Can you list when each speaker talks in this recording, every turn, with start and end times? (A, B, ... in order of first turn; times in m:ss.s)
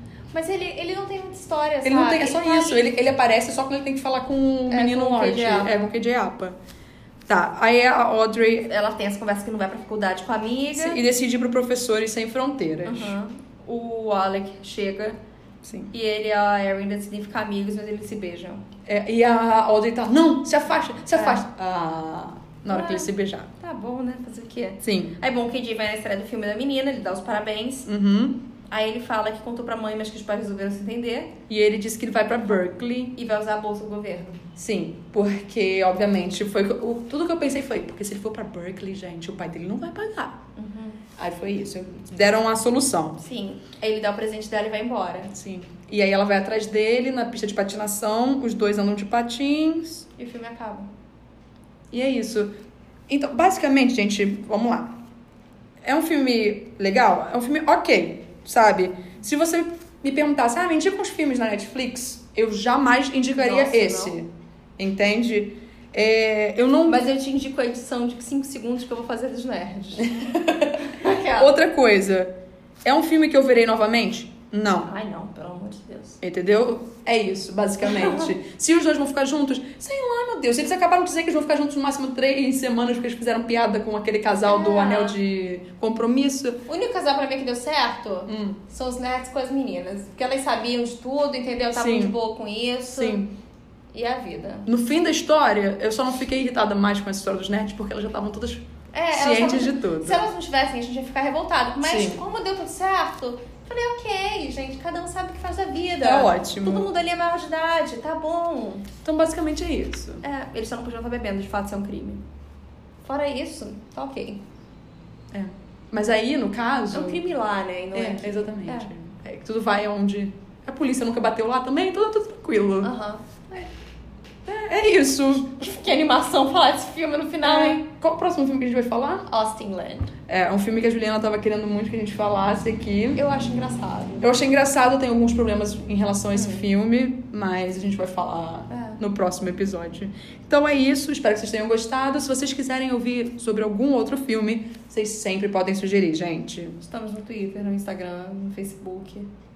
0:00.3-0:02.9 A
0:01.8-0:06.6 B
0:04.7-0:05.9 A
0:07.3-0:08.7 B
0:08.7-0:11.0 A
0:10.8-0:13.2 B
0:12.8-0:15.2 A
0:15.6-0:15.9 B
0:15.9-0:18.6 A
0:18.9-0:23.5 B
0:21.1-0:21.4 A
0:22.7-0:27.9 A
0:24.8-0:25.2 B
0:27.9-0:28.4 B
0:28.7-0:31.3 A
0:31.5-0:33.2 B
0:33.2-0:34.4 A
0:34.6-0:40.4 B
0:40.6-0:41.0 A
0:41.2-0:43.2 B
0:43.2-0:45.3 A
0:45.3-0:50.1 B
0:50.2-0:50.9 A
0:51.9-0:52.5 B
0:53.1-0:54.9 B
0:55.8-1:07.1 B
1:03.4-1:04.2 A
1:06.9-1:10.2 A
1:10.0-1:12.3 B
1:10.8-1:11.5 A
1:12.8-1:14.9 B
1:14.8-1:16.2 A
1:16.2-1:26.6 B
1:17.8-1:18.3 A
1:24.5-1:25.2 A
1:26.7-1:33.2 A
1:28.3-1:28.6 B
1:31.8-1:32.1 B
1:32.9-1:33.3 B
1:33.9-1:34.7 A
1:34.7-1:40.2 B
1:38.9-1:48.9 A
1:41.8-1:42.2 B
1:46.0-1:46.9 B
1:49.0-1:50.2 B
1:50.2-1:52.2 A
1:53.0-1:54.4 A
1:55.3-1:57.2 B
1:56.9-1:58.9 A
1:57.9-2:02.9 B
2:02.8-2:03.7 A
2:04.5-2:05.6 B
2:05.6-2:07.8 A
2:07.4-2:09.3 B
2:09.3-2:10.1 A
2:10.3-2:13.2 B
2:13.2-2:14.3 A
2:14.2-2:26.8 B
2:16.3-2:16.7 A
2:18.7-2:19.0 A
2:26.8-2:29.3 A